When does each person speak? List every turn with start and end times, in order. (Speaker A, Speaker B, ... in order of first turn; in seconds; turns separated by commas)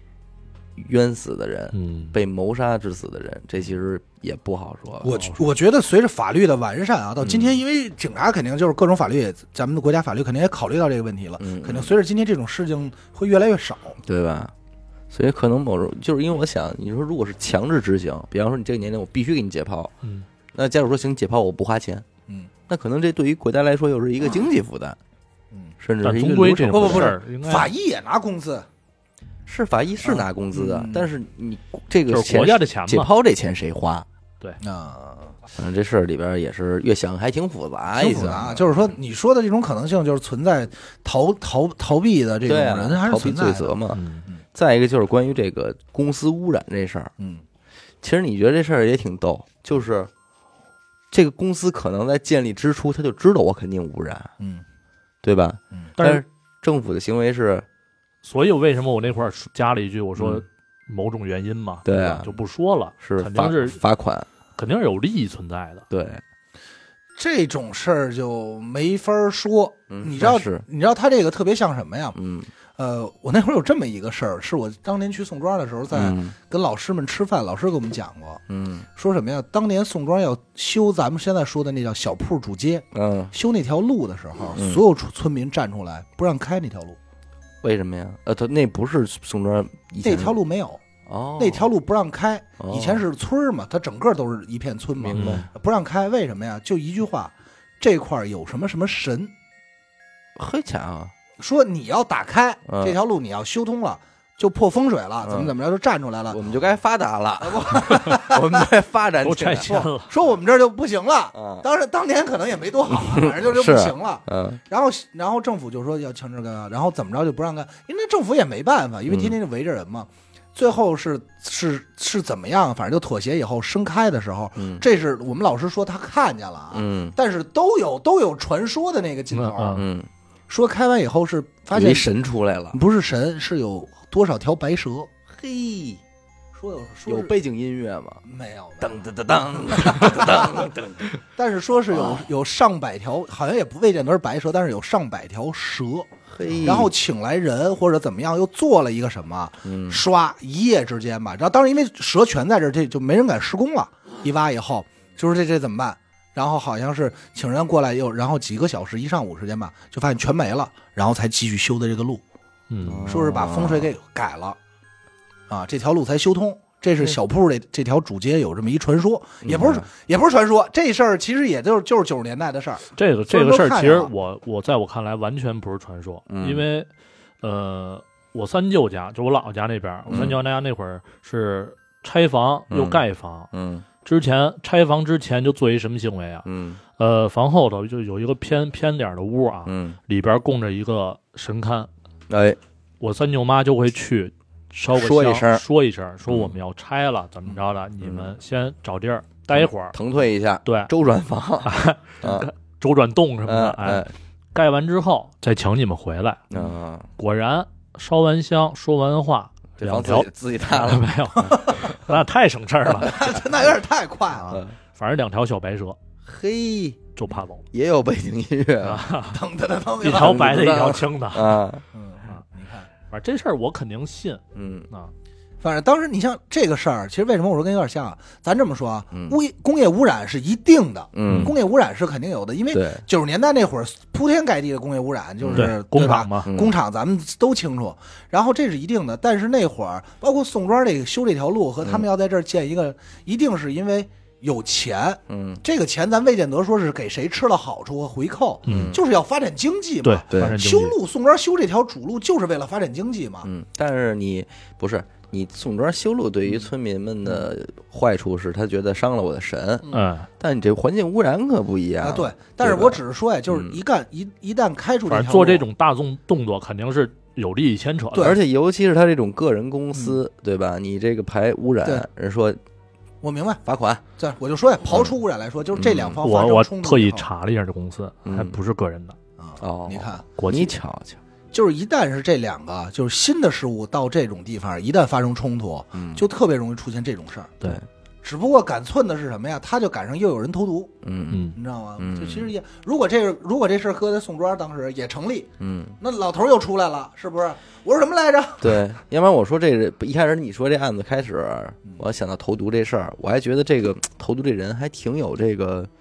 Speaker A: 0.8-5.1, Speaker B: 1.7-2.1, Speaker C: 5.0-14.0, Speaker B: 5.1-5.4, Speaker A: 7.2-7.6, Speaker A: 11.4-11.9, Speaker A: 14.1-14.5, Speaker A: 15.1-19.9, Speaker A: 20.5-22.1, Speaker A: 22.7-25.0, Speaker A: 25.8-27.2, Speaker B: 26.0-27.7, Speaker C: 26.7-28.7, Speaker A: 29.5-34.1, Speaker C: 30.0-31.1, Speaker B: 32.1-33.1, Speaker C: 34.6-35.4, Speaker A: 35.6-38.9, Speaker C: 37.9-44.4, Speaker A: 42.5-44.0, Speaker B: 43.9-44.3, Speaker A: 44.5-47.1, Speaker C: 47.2-47.4, Speaker A: 48.0-50.1, Speaker A: 51.1-54.3, Speaker C: 54.4-54.6, Speaker A: 55.2-57.7, Speaker B: 56.0-56.2, Speaker B: 58.2-63.8, Speaker A: 60.2-60.4, Speaker A: 61.9-62.4, Speaker A: 63.0-64.3, Speaker B: 64.6-65.8, Speaker A: 65.9-66.2, Speaker C: 67.2-72.2, Speaker A: 69.9-70.7, Speaker A: 72.2-72.5, Speaker C: 72.8-78.4, Speaker A: 75.9-76.3, Speaker A: 78.5-78.9, Speaker C: 79.0-87.0, Speaker A: 82.9-83.3, Speaker A: 84.6-84.8, Speaker A: 87.6-90.4, Speaker C: 90.0-90.8, Speaker A: 91.1-91.7, Speaker C: 91.4-99.3, Speaker A: 92.6-93.0, Speaker A: 95.0-95.5, Speaker B: 95.1-95.4, Speaker A: 100.4-101.1, Speaker C: 101.4-106.4, Speaker A: 102.7-103.0, Speaker A: 105.2-105.5, Speaker A: 106.3-109.9, Speaker C: 107.4-108.7, Speaker B: 109.2-110.1, Speaker C: 110.0-129.8, Speaker A: 111.3-111.7, Speaker A: 112.9-114.6, Speaker A: 119.1-119.4, Speaker A: 124.6-124.8, Speaker A: 126.7-127.1, Speaker B: 129.3-129.9, Speaker A: 129.8-130.1, Speaker C: 130.5-132.1, Speaker A: 131.7-132.8, Speaker C: 132.7-135.1, Speaker A: 135.3-136.0, Speaker C: 136.5-137.3, Speaker A: 137.1-138.2, Speaker C: 138.2-146.1, Speaker A: 138.8-141.2, Speaker A: 141.9-142.2, Speaker A: 146.3-146.9, Speaker C: 146.6-162.2, Speaker A: 149.7-150.0, Speaker B: 162.7-163.1, Speaker A: 162.8-163.9, Speaker C: 163.1-164.6, Speaker C: 165.5-174.1, Speaker A: 169.4-169.8, Speaker B: 173.0-176.9, Speaker A: 176.3-176.7, Speaker B: 177.4-183.5, Speaker A: 180.1-180.4, Speaker A: 182.7-183.8, Speaker B: 184.0-186.5, Speaker A: 186.4-186.8, Speaker B: 187.0-191.9, Speaker A: 189.7-190.0, Speaker A: 192.3-192.6, Speaker B: 193.0-199.9, Speaker A: 194.9-195.6, Speaker A: 196.3-196.6, Speaker A: 198.0-198.3, Speaker A: 199.5-202.5, Speaker B: 200.7-200.9, Speaker B: 201.6-206.4, Speaker A: 203.5-204.1, Speaker A: 206.5-207.1, Speaker B: 207.2-213.2, Speaker A: 209.8-211.6, Speaker C: 211.5-211.9, Speaker C: 212.9-214.6, Speaker A: 214.5-214.8, Speaker B: 214.9-216.0, Speaker A: 216.2-217.1, Speaker B: 217.2-217.6, Speaker A: 217.7-219.2, Speaker B: 218.8-219.4, Speaker C: 219.3-220.5, Speaker B: 220.0-221.6, Speaker A: 220.0-221.8, Speaker C: 221.9-222.9, Speaker B: 223.1-225.1, Speaker A: 224.6-224.9, Speaker C: 225.6-253.5, Speaker A: 229.1-229.4, Speaker A: 231.1-231.5, Speaker B: 231.2-231.5, Speaker A: 232.7-233.0, Speaker A: 235.4-235.7, Speaker B: 235.6-236.5, Speaker A: 236.5-236.7, Speaker A: 245.3-245.6, Speaker B: 248.7-248.9, Speaker A: 248.7-249.0, Speaker B: 250.0-251.0, Speaker A: 250.3-250.6, Speaker A: 253.4-263.8, Speaker B: 259.9-260.3, Speaker C: 262.0-265.6, Speaker B: 265.1-268.4, Speaker A: 268.2-272.6, Speaker C: 273.2-273.6, Speaker A: 273.7-274.0, Speaker C: 274.2-277.3, Speaker A: 275.8-276.2, Speaker B: 276.2-279.2, Speaker A: 278.2-278.6, Speaker C: 279.4-280.2, Speaker A: 279.6-281.2, Speaker B: 280.4-280.7, Speaker C: 281.5-287.6, Speaker A: 285.9-286.3, Speaker C: 288.2-291.0, Speaker A: 291.0-291.5, Speaker B: 291.3-291.6, Speaker C: 291.6-298.8, Speaker A: 292.0-292.5, Speaker A: 295.6-296.0, Speaker A: 298.6-305.9